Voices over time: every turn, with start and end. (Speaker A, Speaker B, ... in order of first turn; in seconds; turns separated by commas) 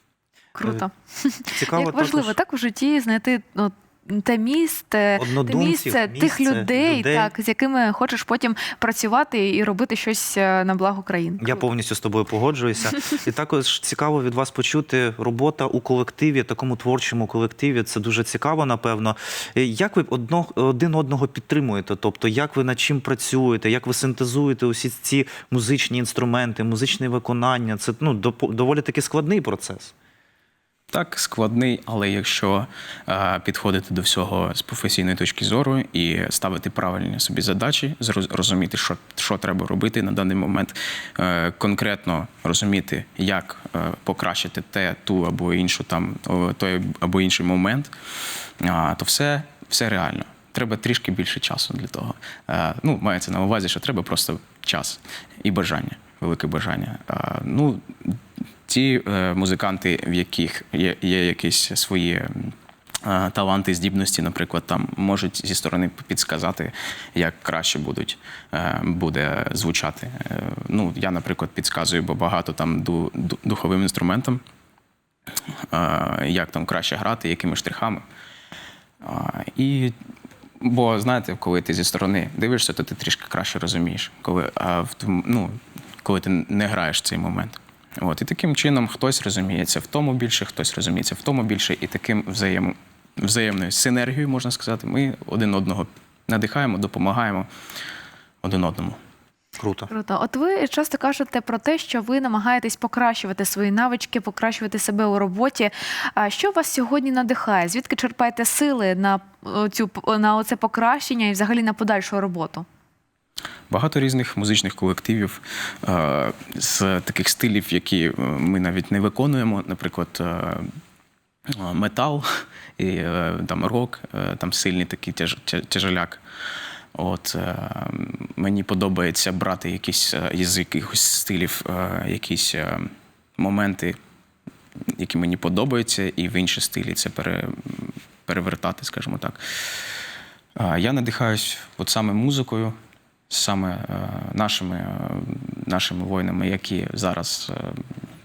Speaker A: 0.5-11.6, Speaker B: 1.5-2.4, Speaker B: 5.2-7.3, Speaker B: 11.4-29.9, Speaker C: 30.9-47.9, Speaker C: 48.6-74.4, Speaker C: 75.7-78.0, Speaker C: 79.0-79.9, Speaker C: 80.6-97.5, Speaker C: 98.4-99.0, Speaker B: 99.6-99.9, Speaker A: 99.9-112.6, Speaker C: 113.7-120.7, Speaker C: 121.6-122.2, Speaker C: 122.8-126.2, Speaker C: 126.9-134.0, Speaker C: 134.9-139.4, Speaker C: 140.6-142.7, Speaker C: 143.3-147.8